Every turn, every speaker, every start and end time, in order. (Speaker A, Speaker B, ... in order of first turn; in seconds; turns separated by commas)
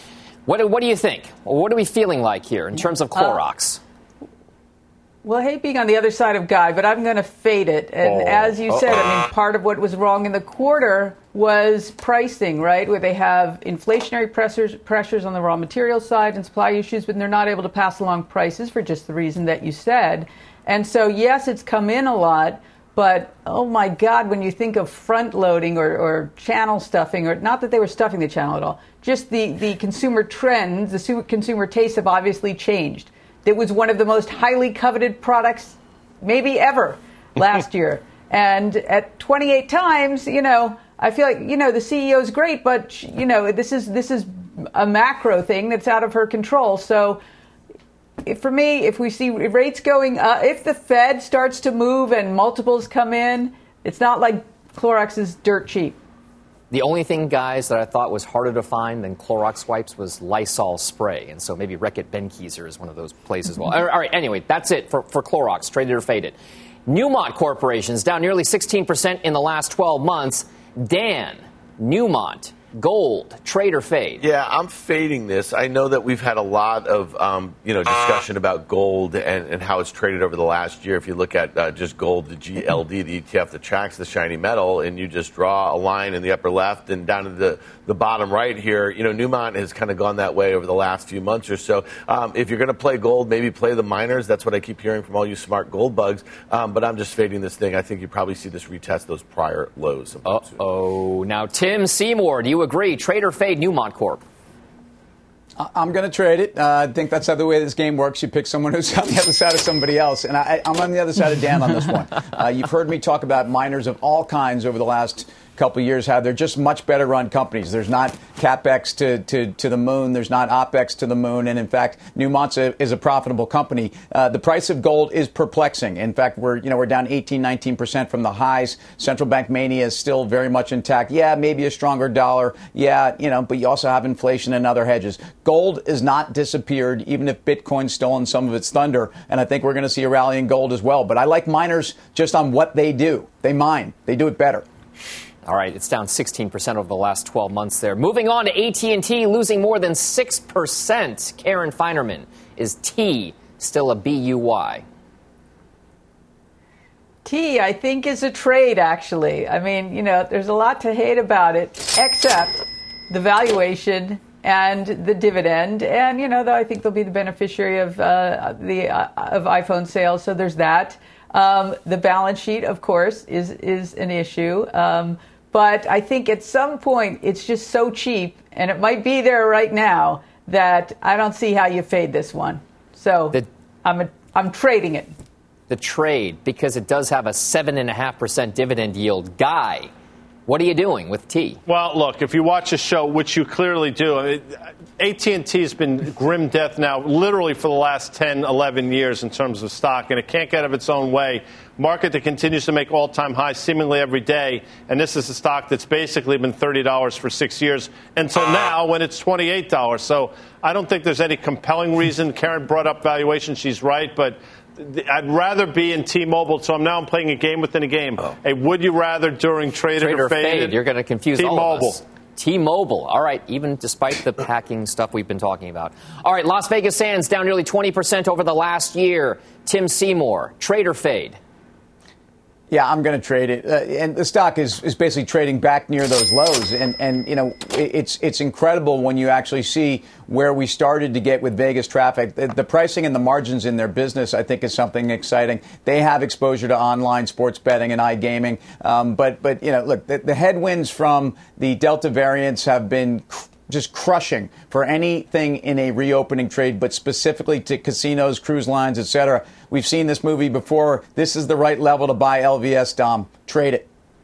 Speaker A: 0.5-3.8, Speaker B: 5.2-47.2, Speaker C: 8.0-8.6, Speaker B: 48.2-56.0, Speaker A: 56.7-66.3, Speaker A: 66.9-74.2, Speaker D: 74.2-100.6, Speaker A: 100.2-104.2, Speaker E: 105.6-144.6, Speaker A: 145.4-154.8, Speaker B: 157.2-185.1, Speaker A: 185.7-189.9, Speaker A: 190.5-191.6, Speaker C: 191.7-194.5, Speaker C: 195.0-220.8, Speaker A: 220.0-231.4, Speaker C: 221.3-222.0, Speaker E: 232.7-263.9